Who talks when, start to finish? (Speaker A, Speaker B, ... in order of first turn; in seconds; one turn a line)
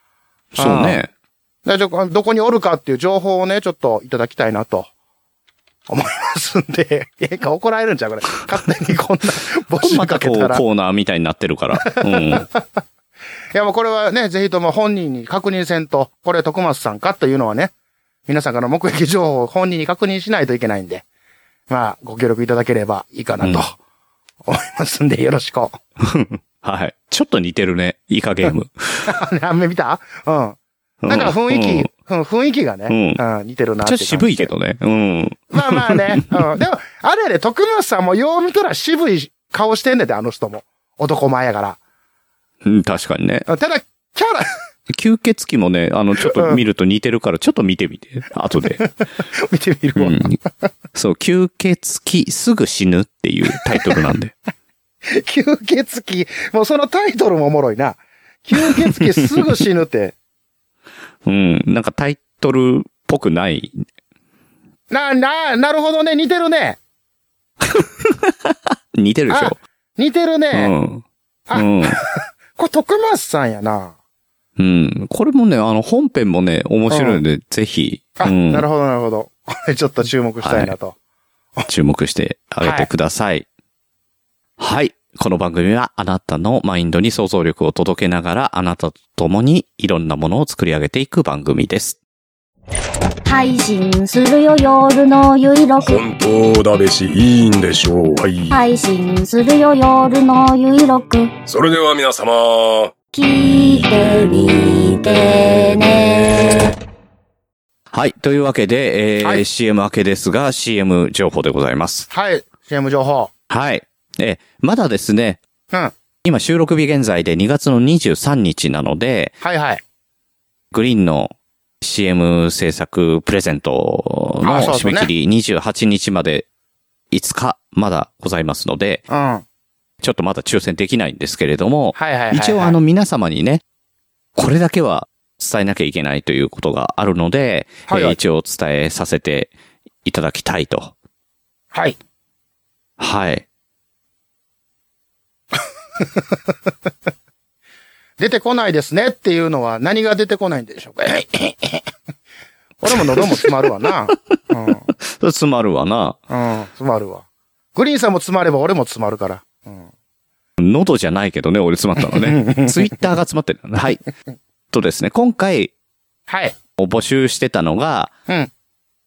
Speaker A: 0.6-1.1
Speaker B: 0.6-1.0
Speaker B: 1.6-4.9
Speaker B: 5.9-10.6
Speaker A: 9.8-12.5
Speaker B: 11.9-12.6
Speaker B: 13.5-17.7
Speaker B: 18.3-21.0
Speaker B: 21.7-23.8
Speaker B: 24.5-25.8
Speaker A: 26.0-29.1
Speaker B: 29.1-34.5
Speaker A: 31.0-31.9
Speaker A: 32.9-33.2
Speaker A: 33.8-36.4
Speaker B: 35.5-41.8
Speaker A: 42.6-43.5
Speaker B: 43.5-44.5
Speaker A: 44.9-48.9
Speaker B: 46.2-46.6
Speaker B: 48.7-50.7
Speaker A: 50.0-50.4
Speaker A: 50.9-54.3
Speaker B: 53.8-54.1
Speaker B: 55.0-60.1
Speaker A: 58.6-59.5
Speaker A: 61.2-63.8
Speaker B: 64.9-66.8
Speaker A: 67.7-69.6
Speaker B: 69.3-70.7
Speaker A: 70.5-71.0
Speaker B: 71.5-74.0
Speaker A: 71.5-72.0
Speaker A: 74.6-78.7
Speaker B: 76.9-77.2
Speaker B: 78.2-81.0
Speaker A: 80.4-80.7
Speaker A: 81.7-83.5
Speaker B: 82.6-82.9
Speaker A: 84.6-92.0
Speaker C: 93.3-96.0
Speaker D: 95.8-98.6
Speaker C: 98.5-101.3
Speaker D: 101.5-102.9
Speaker C: 103.1-106.8
Speaker A: 107.9-112.1
Speaker B: 112.1-113.3
Speaker A: 113.5-115.4
Speaker A: 116.2-119.3
Speaker B: 119.4-119.8
Speaker A: 120.7-126.5
Speaker B: 124.5-125.1
Speaker A: 127.1-129.0
Speaker B: 129.1-129.4
Speaker A: 130.0-133.6
Speaker B: 131.9-132.8
Speaker A: 134.4-139.5
Speaker B: 137.9-138.2
Speaker A: 140.1-140.9
Speaker B: 141.7-142.0
Speaker A: 143.0-143.4
Speaker B: 146.0-146.7
Speaker B: 148.2-151.9
Speaker B: 152.8-154.9
Speaker A: 154.9-156.2
Speaker B: 156.3-159.9
Speaker A: 160.6-164.0
Speaker B: 162.0-163.0
Speaker A: 164.7-165.7
Speaker B: 166.3-166.6
Speaker A: 166.8-168.1